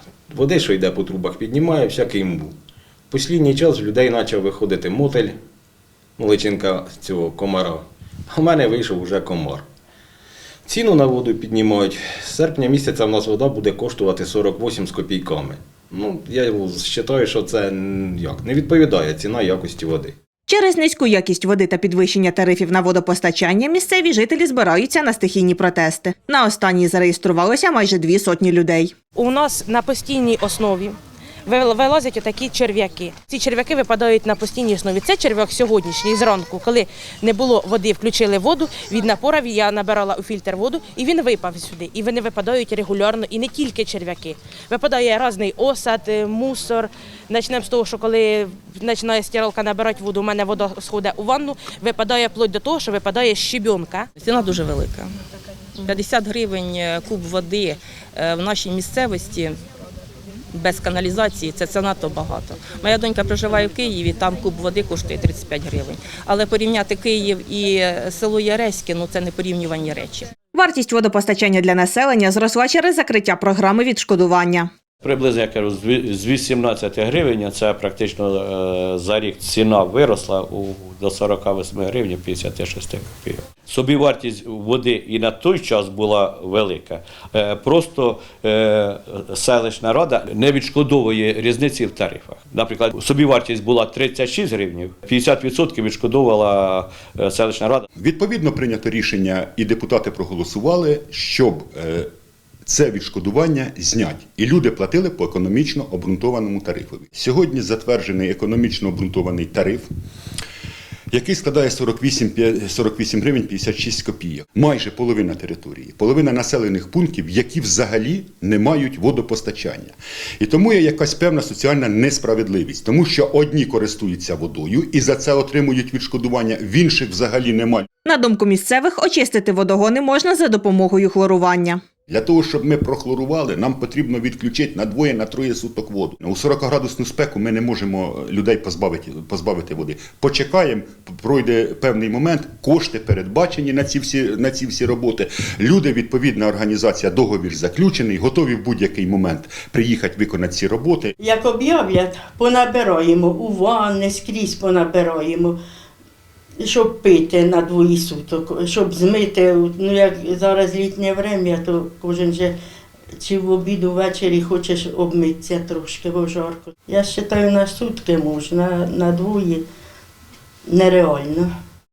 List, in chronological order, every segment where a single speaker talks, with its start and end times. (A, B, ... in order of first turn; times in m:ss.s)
0:00.3-0:02.6 A
0:03.1-0:05.4 A
0:06.2-0:09.7 A
0:10.6-0:20.2 A
0:20.5-0:28.9 B
0:29.2-0:54.1 C
0:54.2-0:55.1 D
0:55.8-0:59.6 D
1:00.5-1:10.3 D
1:10.6-1:14.7 B
1:15.0-1:37.9 E
1:38.0-1:42.1 F
1:42.7-1:49.9 F
1:51.1-2:07.9 F
2:08.1-2:11.8 B
2:12.1-2:31.2 F
2:31.2-2:35.6 G
2:36.6-2:42.6 G
2:43.1-2:49.7 G
2:50.6-2:51.6 G